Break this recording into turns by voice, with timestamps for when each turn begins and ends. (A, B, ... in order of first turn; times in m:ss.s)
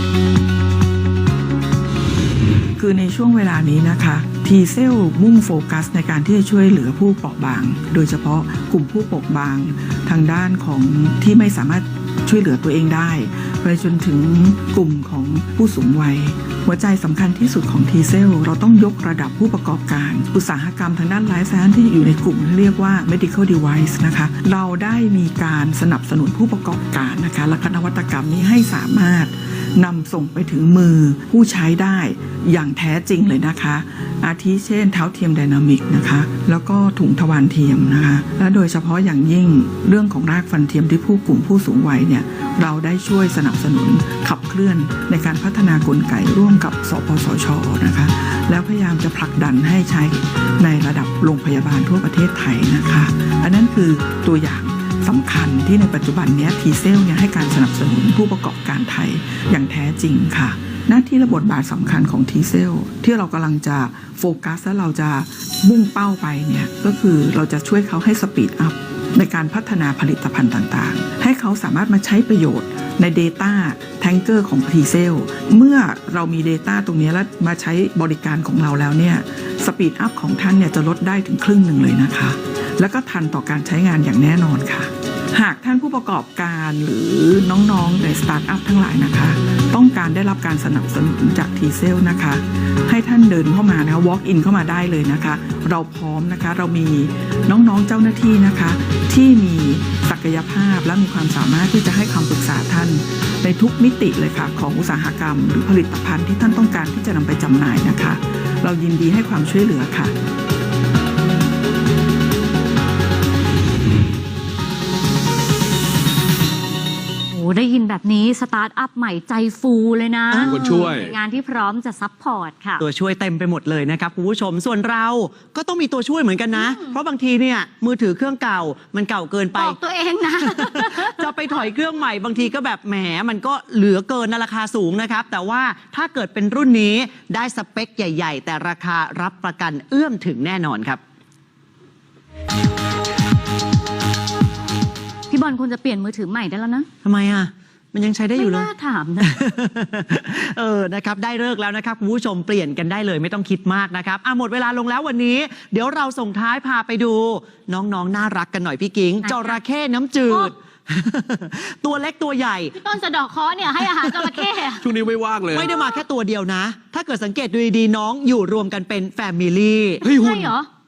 0:02.8-1:50.1 A
1:57.3-2:02.8 B
2:00.3-2:01.0 C
2:00.4-2:01.1 D
2:02.8-2:09.8 C
2:06.5-2:06.9 B
2:09.6-2:11.2 B
2:10.4-2:21.0 C
2:25.3-2:26.9 B
2:27.0-2:28.7 C
2:28.4-2:29.5 B
2:29.2-2:42.8 C
2:39.2-2:39.6 B
2:42.8-2:44.8 B
2:43.8-2:44.6 C
2:44.8-2:45.7 D
2:45.5-2:50.0 C
2:45.6-2:46.0 B
2:50.0-2:50.7 B
2:50.0-2:50.5 D